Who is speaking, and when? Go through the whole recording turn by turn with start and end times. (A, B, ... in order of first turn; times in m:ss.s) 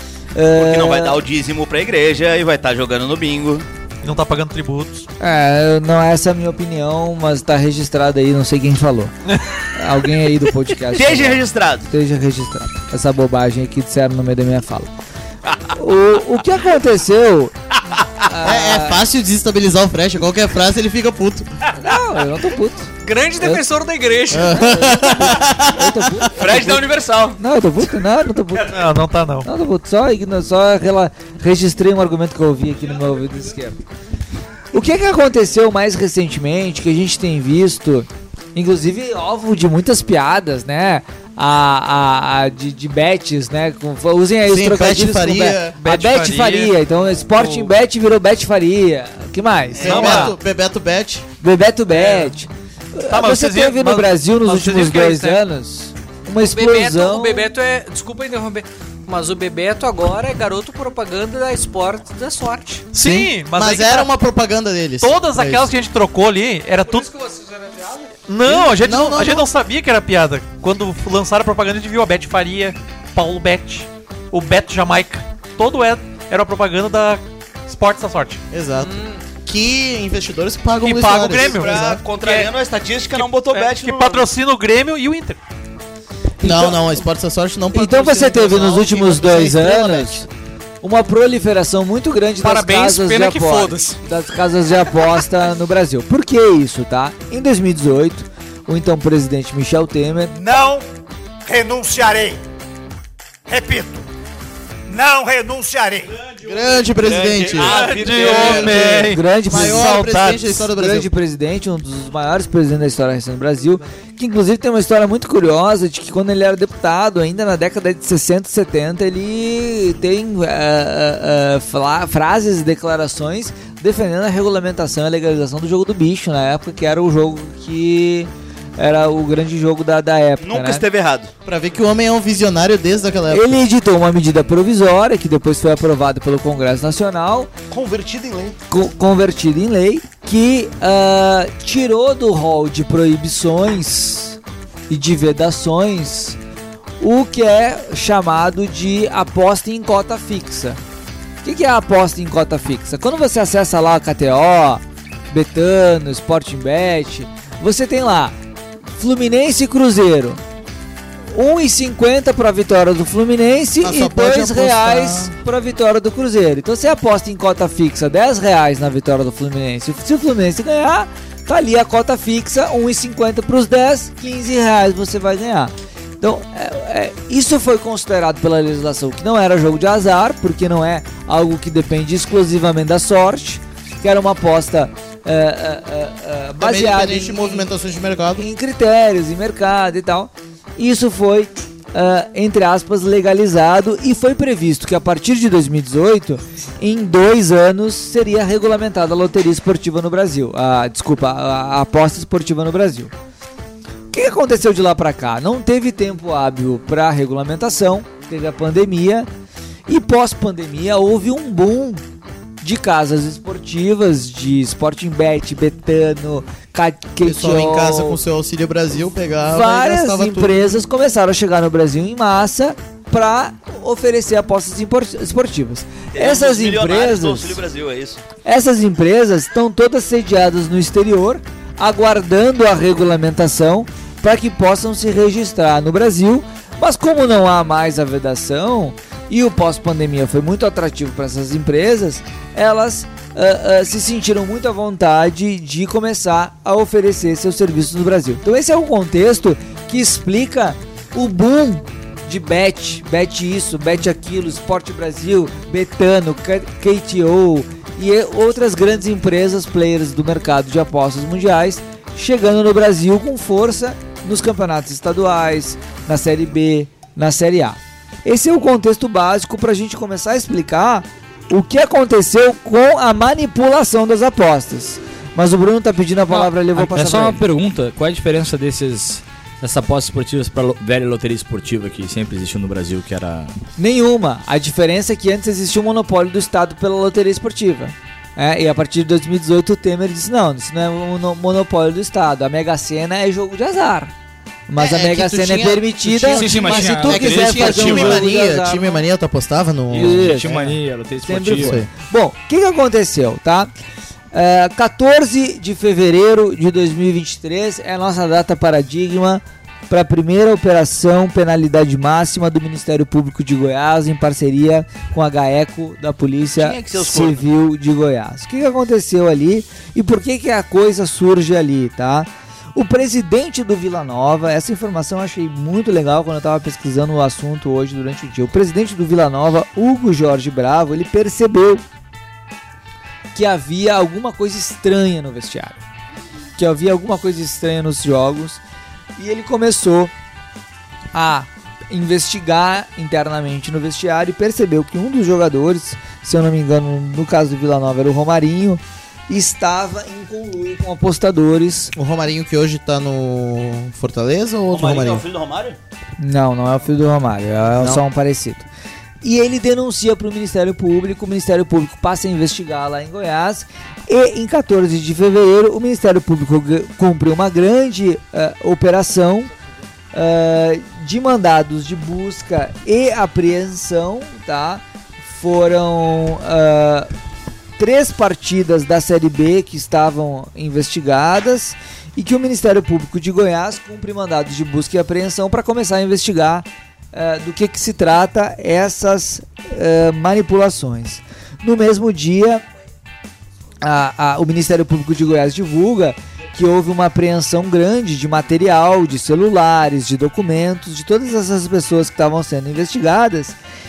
0:00.4-0:01.2 A
0:00.5-0:03.6 B
0:04.0-0:05.0 C
0:05.2-0:09.1 A
0:09.7-0:14.9 A
0:10.9-0:11.9 B
0:15.7-0:17.5 A
0:18.2-0:19.0 A
0:18.4-0:21.5 D
0:21.8-0:23.6 A
0:23.0-0:24.8 E
0:24.3-0:26.3 D
0:24.4-0:28.8 A
0:26.3-0:27.4 B
0:28.7-0:29.5 C
0:29.4-0:33.8 A
0:34.7-0:50.3 A
0:44.5-0:45.8 D
0:45.8-0:47.7 C
0:49.8-0:50.1 B
0:49.8-0:51.2 D
0:49.8-0:50.3 C
0:51.4-0:57.5 A
0:51.9-0:52.3 C
0:53.1-0:55.4 C
0:56.4-1:02.9 E
1:02.9-1:04.1 C
1:03.0-1:05.7 D
1:05.0-1:07.1 C
1:06.8-1:08.1 E
1:08.3-1:18.4 C
1:08.4-1:09.5 D
1:18.5-1:22.0 D
1:18.8-1:19.2 E
1:20.8-1:22.5 C
1:21.3-1:24.3 B
1:23.1-1:25.4 C
1:26.4-1:26.9 A
1:26.4-1:30.2 D
1:27.7-1:30.3 A
1:30.8-1:40.4 A
1:32.4-1:34.0 E
1:40.3-1:40.8 F
1:41.4-1:42.4 F
1:43.5-1:44.0 F
1:44.9-1:46.3 F
1:46.4-1:51.1 D
1:47.0-1:48.9 B
1:47.6-1:49.8 C
1:48.9-2:10.8 A
2:10.4-2:11.3 B
2:11.4-2:13.6 D
2:13.3-2:17.5 A
2:17.7-2:18.6 B
2:18.7-2:26.4 A
2:27.0-2:30.8 A
2:31.4-2:38.4 A
2:38.9-2:40.4 A
2:41.3-3:07.7 A
2:43.8-2:45.3 D
3:06.6-3:08.4 D
3:08.4-3:23.1 A
3:24.1-3:29.3 A
3:29.9-3:32.0 A
3:32.6-3:38.2 A
3:37.2-3:40.7 D
3:39.4-3:47.6 A
3:46.1-3:48.2 B
3:48.4-4:37.4 A
4:36.3-4:43.5 G
4:43.8-4:54.1 A
4:54.7-4:59.0 A
4:54.8-5:00.4 D
4:56.3-4:58.2 G
4:59.9-5:01.8 G
4:59.9-5:03.7 A
5:01.5-5:01.9 D
5:04.3-5:31.8 A
5:16.6-5:17.4 B
5:33.3-5:35.8 A
5:36.6-5:38.6 A
5:39.2-5:40.1 A
5:41.1-5:51.9 A
5:51.9-5:55.2 D
5:54.7-5:55.8 B
5:56.2-5:58.7 A
5:59.2-6:09.5 A
6:10.1-6:17.1 A
6:17.8-6:32.6 A
6:33.8-6:43.6 A